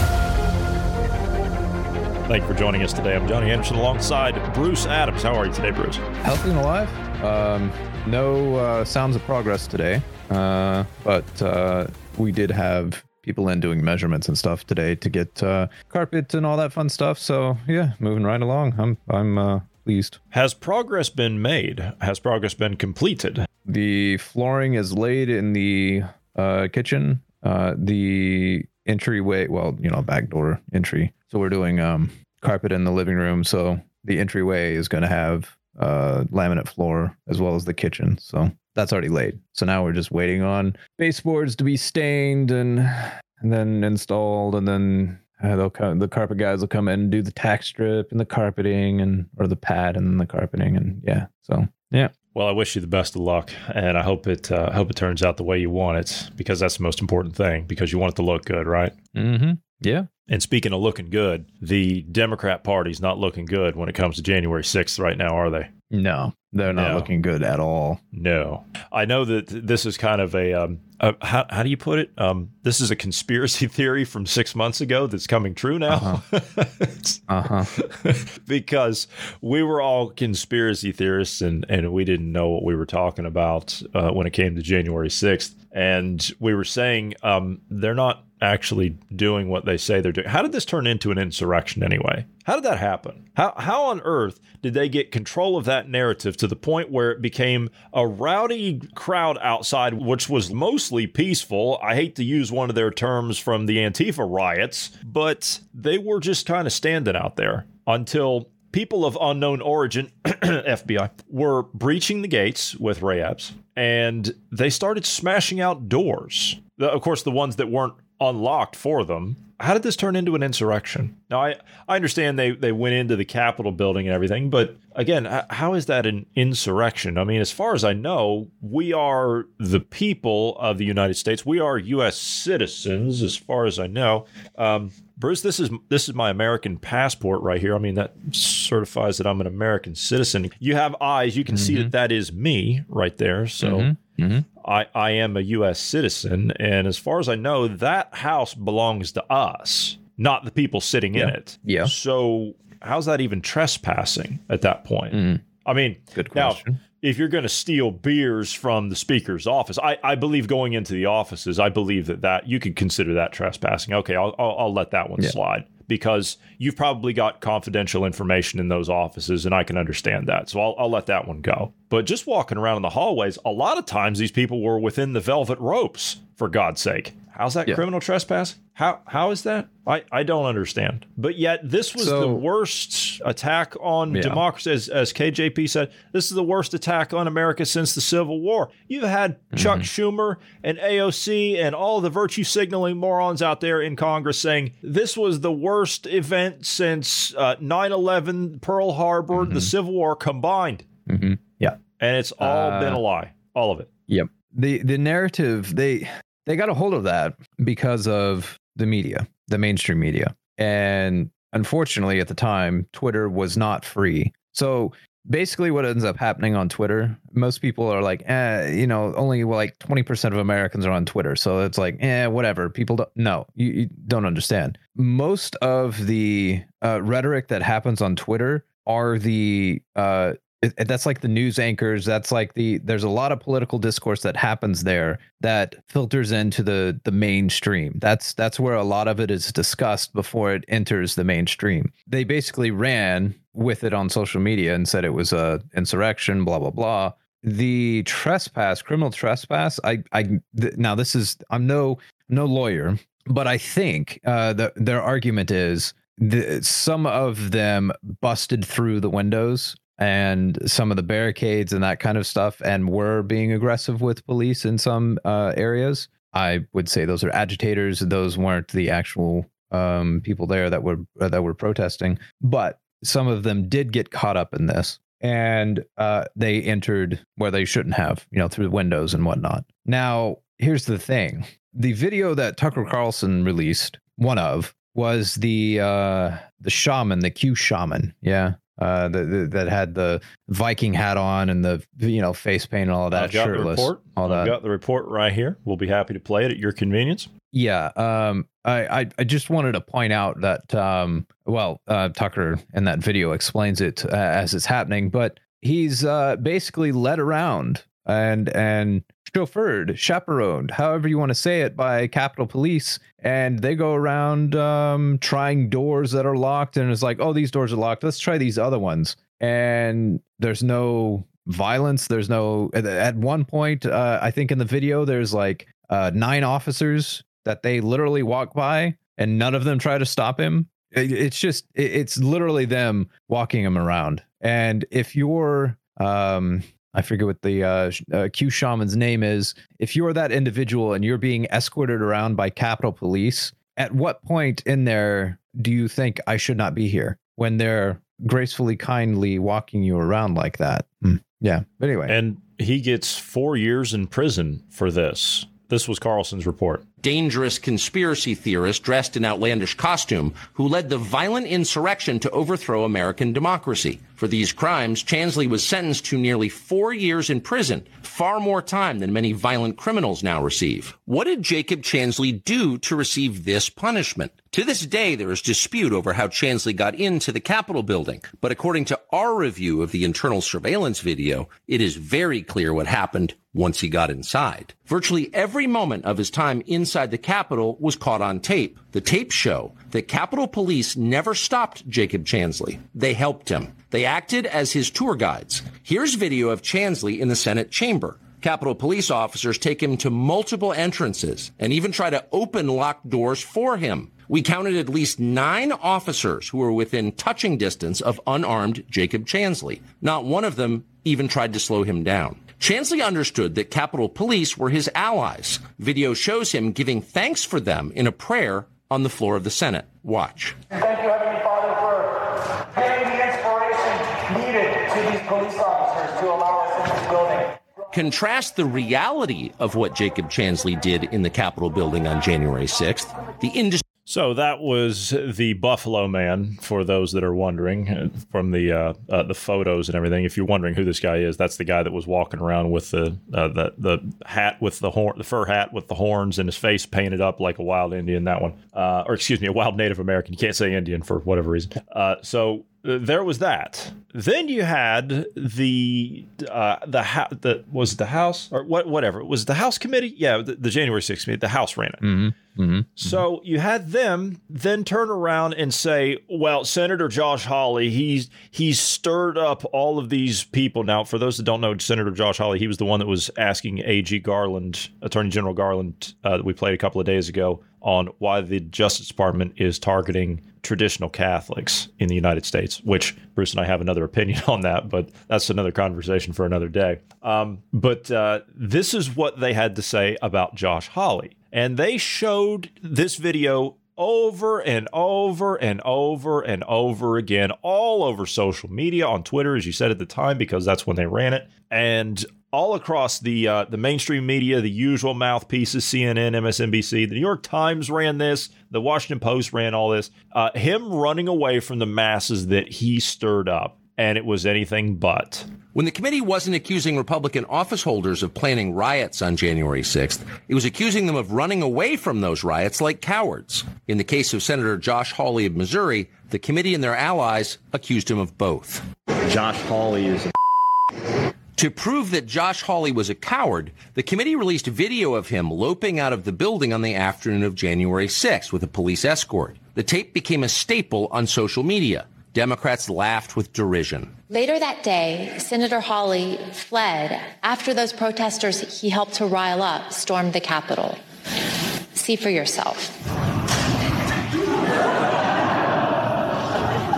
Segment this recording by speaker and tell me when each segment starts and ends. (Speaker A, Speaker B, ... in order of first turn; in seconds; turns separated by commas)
Speaker A: 2.3-6.0, Speaker B: 6.2-20.2, Speaker A: 20.3-23.5, Speaker B: 23.6-52.1, Speaker A: 52.3-58.9, Speaker B: 59.1-60.1, Speaker A: 60.3-65.7, Speaker B: 65.9-68.0, Speaker A: 66.7-67.1, Speaker A: 68.1-77.2, Speaker B: 75.9-76.2, Speaker B: 77.3-77.7, Speaker A: 77.8-143.9, Speaker B: 141.5-141.9, Speaker B: 143.6-144.4, Speaker A: 144.6-200.8, Speaker B: 151.1-151.9, Speaker B: 155.1-155.4, Speaker B: 156.1-156.8, Speaker B: 182.0-182.4, Speaker B: 184.1-184.4, Speaker B: 189.5-189.9, Speaker B: 199.3-199.7, Speaker B: 201.1-201.8, Speaker A: 202.0-203.9, Speaker B: 202.4-203.0, Speaker B: 204.1-294.6, Speaker A: 293.1-297.3, Speaker B: 297.5-352.2, Speaker A: 352.1-356.8, Speaker C: 357.0-420.6, Speaker D: 420.7-427.6, Speaker C: 427.9-433.8, Speaker A: 434.1-462.2, Speaker B: 462.0-463.2, Speaker A: 463.0-515.5, Speaker C: 515.7-528.9, Speaker A: 529.2-530.3, Speaker C: 531.5-544.1, Speaker E: 544.3-551.0, Speaker E: 551.9-552.9